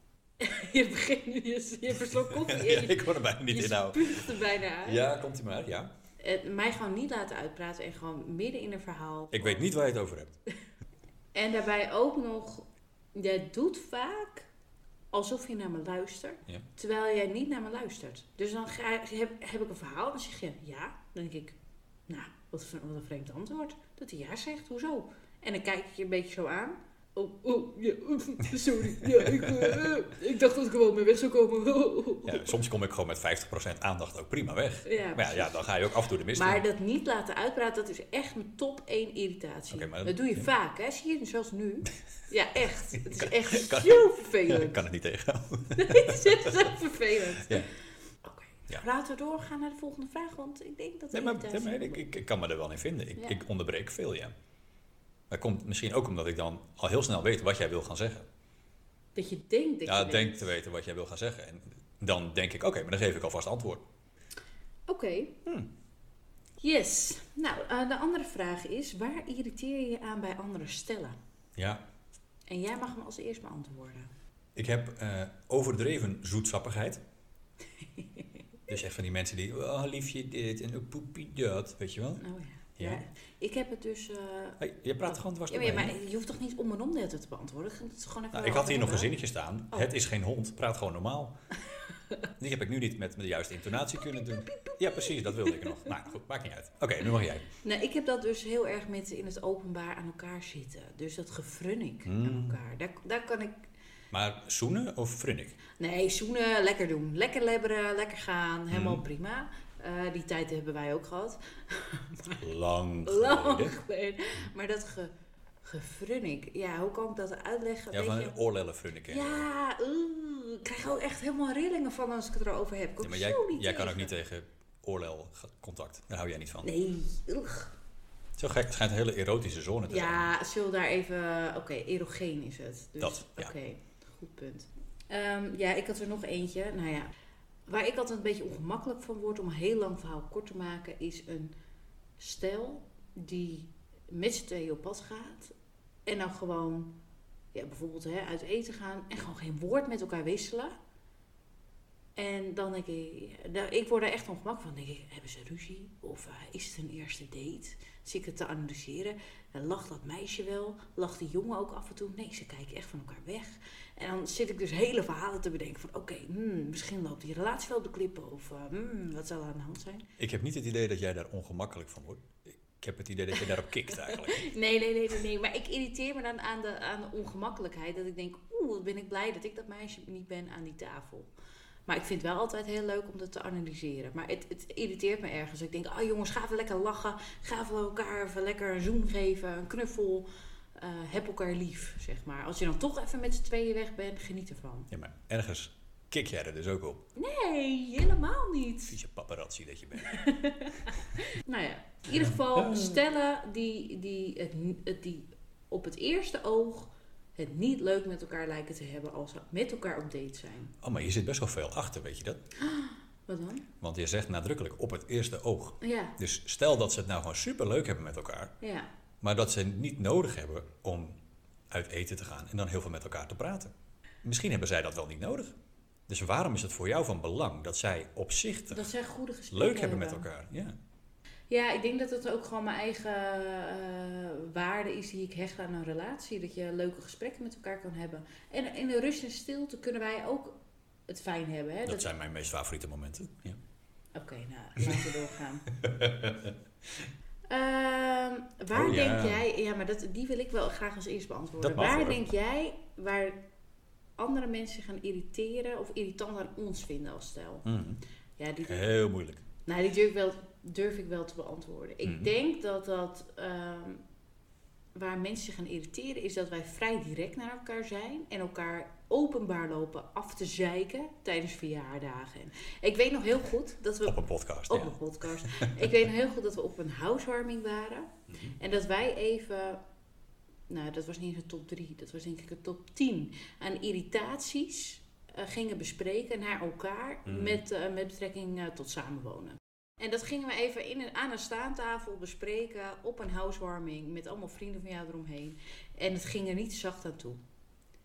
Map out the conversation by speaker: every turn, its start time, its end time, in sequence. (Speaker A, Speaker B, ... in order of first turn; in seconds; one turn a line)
Speaker A: 0.4-5.0
Speaker B: 2.1-5.9
Speaker A: 6.2-9.7
Speaker B: 9.3-10.3
Speaker A: 11.3-14.5
Speaker A: 15.1-32.5
Speaker B: 29.0-29.9
Speaker B: 32.2-36.6
Speaker A: 34.8-35.6
Speaker A: 36.3-44.8
Speaker B: 39.7-40.5
Speaker B: 43.0-46.7
Speaker A: 45.7-47.7
Speaker B: 47.4-47.7
Speaker A: 48.2-52.0
Speaker B: 51.1-54.3
Speaker B: 55.3-58.3
Speaker A: 59.1-60.5
Speaker B: 59.9-63.8
Speaker A: 64.9-65.3
Speaker A: 66.6-71.2
Speaker B: 71.6-71.8
Speaker A: 72.5-74.1
Speaker B: 74.5-77.0
Speaker A: 77.8-78.3
Speaker B: 78.7-82.2
Speaker A: 82.2-89.1
Speaker B: 82.8-83.0
Speaker B: 84.6-85.9
Speaker B: 88.3-91.3
Speaker B: 92.4-97.5
Speaker A: 94.1-95.8
Speaker A: 97.6-103.7
Speaker B: 102.0-102.6
Speaker B: 104.1-105.6
Speaker A: 105.8-112.4
Speaker B: 108.7-109.0
Speaker B: 112.4-113.7
Speaker A: 113.0-118.4
Speaker B: 117.9-119.5
Speaker A: 119.1-124.1
Speaker B: 123.0-126.7
Speaker A: 126.6-127.7
Speaker B: 128.4-130.3
Speaker A: 129.9-137.1
Speaker B: 133.0-133.5
Speaker A: 137.7-141.5
Speaker A: 142.2-145.5
Speaker A: 146.1-146.9
Speaker A: 147.5-150.7
Speaker A: 152.2-170.1
Speaker B: 170.2-174.5
Speaker A: 173.9-181.3
Speaker A: 181.9-194.9
Speaker B: 194.9-197.0
Speaker A: 197.2-199.0
Speaker B: 198.9-200.2
Speaker A: 200.0-210.7
Speaker B: 202.1-203.0
Speaker B: 210.8-212.4
Speaker A: 212.6-213.7
Speaker B: 213.8-218.5
Speaker A: 215.8-216.2
Speaker A: 218.6-218.9
Speaker B: 219.2-221.2
Speaker B: 221.7-223.7
Speaker B: 224.2-225.6
Speaker B: 226.1-228.9
Speaker A: 228.7-230.2
Speaker B: 229.5-230.8
Speaker A: 231.5-242.1
Speaker B: 241.8-243.6
Speaker A: 244.1-245.7
Speaker B: 245.7-246.5
Speaker A: 247.5-253.4
Speaker B: 248.7-249.4
Speaker B: 251.6-252.2
Speaker A: 254.2-257.6
Speaker B: 257.6-258.0
Speaker A: 258.4-258.9
Speaker B: 258.6-259.4
Speaker A: 259.6-264.0
Speaker B: 262.0-262.3
Speaker A: 264.9-279.8
Speaker B: 274.1-275.9
Speaker B: 278.3-278.6
Speaker A: 280.7-297.4
Speaker B: 287.2-287.6